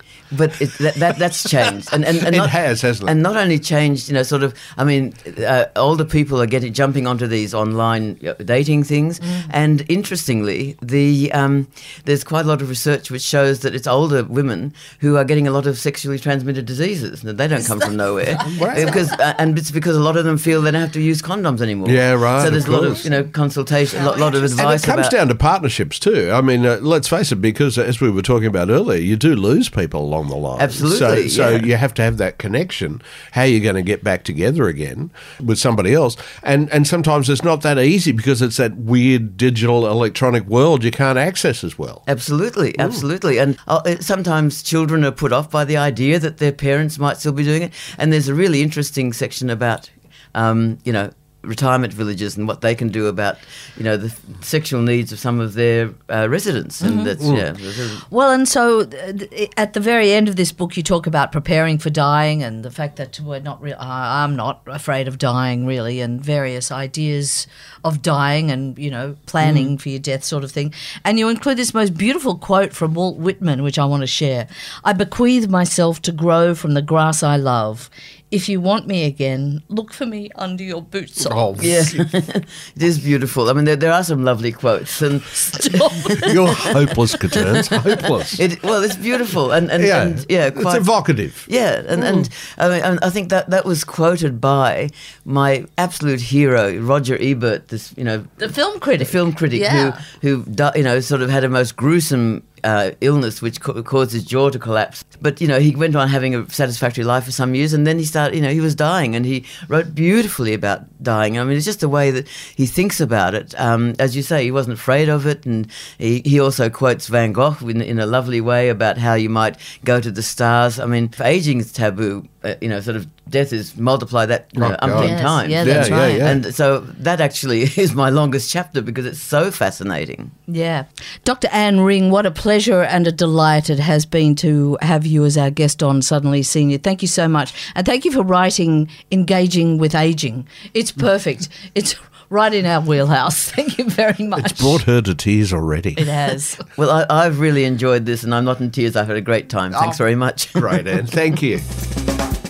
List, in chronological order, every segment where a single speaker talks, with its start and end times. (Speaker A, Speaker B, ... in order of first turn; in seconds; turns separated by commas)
Speaker A: 0.3-25.1, Speaker B: 1.7-3.1, Speaker B: 18.4-19.0, Speaker B: 21.8-23.0, Speaker C: 23.9-24.7, Speaker B: 24.6-42.0, Speaker A: 30.6-31.7, Speaker A: 42.0-58.0, Speaker C: 56.8-57.2, Speaker C: 58.0-81.5, Speaker B: 69.4-69.7, Speaker B: 81.2-82.0, Speaker A: 81.6-90.9, Speaker C: 85.4-86.3, Speaker B: 86.2-88.4, Speaker B: 89.8-92.3, Speaker A: 91.5-130.3, Speaker C: 98.4-100.0, Speaker B: 124.5-126.4, Speaker C: 124.9-126.3, Speaker C: 130.5-144.8, Speaker B: 144.4-146.1, Speaker C: 145.9-146.6, Speaker A: 146.8-151.1, Speaker B: 149.7-150.0, Speaker B: 150.6-151.6